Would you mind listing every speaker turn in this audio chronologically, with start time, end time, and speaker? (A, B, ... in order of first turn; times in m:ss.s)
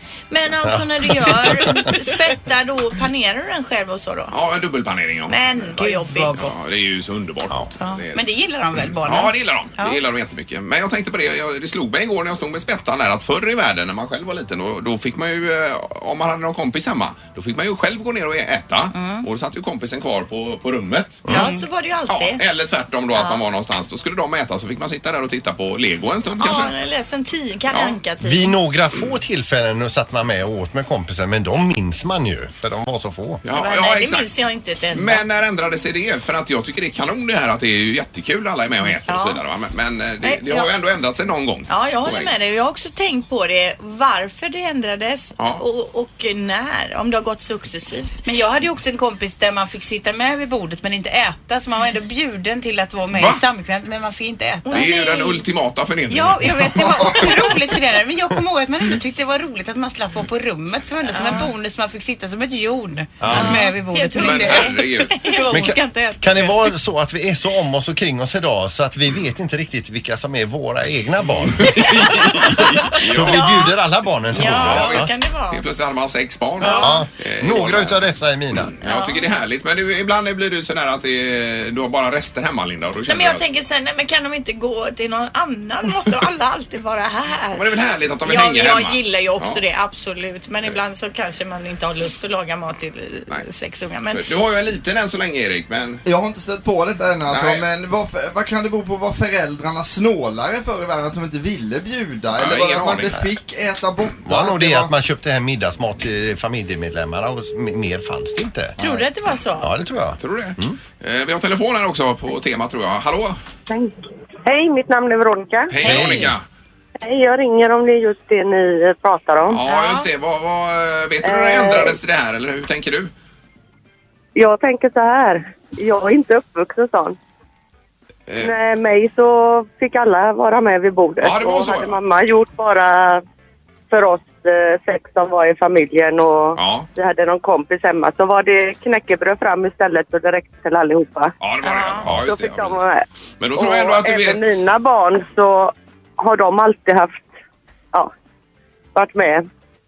0:00.3-0:04.3 A
0:00.6-0:01.9 B
0:04.3-0:05.4 C
0:05.3-0:06.5 A
0:05.8-0:06.6 D
0:06.4-0:08.3 C
0:07.8-0:10.0 D
0:09.0-0:21.3 C
0:18.9-0:19.2 A
0:21.3-0:22.4 A
0:22.1-0:26.7 C
0:23.2-0:23.4 A
0:26.3-0:28.6 A
0:27.7-0:28.0 C
0:28.2-0:33.4 B
0:33.4-0:42.3 C
0:33.5-0:35.2 A
0:39.0-0:39.4 A
0:40.2-0:40.7 A
0:41.7-0:48.2 A
0:48.2-0:54.9 D
0:53.1-0:53.4 C
0:54.6-0:55.4 A
0:54.7-0:57.7 C
0:56.1-1:05.6 D
1:01.1-1:01.5 A
1:03.2-1:03.5 B
1:03.3-1:06.7 A
1:04.1-1:05.2 C
1:05.5-1:15.1 B
1:11.6-1:13.4 C
1:12.1-1:13.8 A
1:14.3-1:15.6 A
1:14.4-1:18.1 C
1:16.6-1:17.0 A
1:16.7-1:18.7 B
1:18.7-1:23.4 C
1:18.8-1:19.2 A
1:23.1-1:27.7 A
1:27.5-1:29.6 C
1:28.2-1:34.2 A
1:34.1-1:36.0 C
1:36.0-1:44.9 E
1:37.3-1:37.6 C
1:42.4-1:43.2 C
1:44.2-1:49.1 B
1:48.8-1:49.7 A
1:49.6-1:50.8 B
1:50.2-1:53.4 C
1:54.5-1:55.7 F
1:55.7-1:56.4 C
1:55.8-1:56.3 B
1:57.0-1:59.6 F
1:59.5-2:03.1 C
1:59.6-2:00.1 A
2:01.2-2:02.0 F
2:04.4-2:07.2 F
2:08.3-2:08.5 C
2:08.4-2:13.2 F
2:11.2-2:12.0 C
2:13.9-2:21.3 F
2:16.6-2:16.9 C
2:21.4-2:22.8 C
2:21.6-2:22.1 A
2:22.1-2:27.3 F
2:23.4-2:24.6 C
2:29.0-2:29.4 F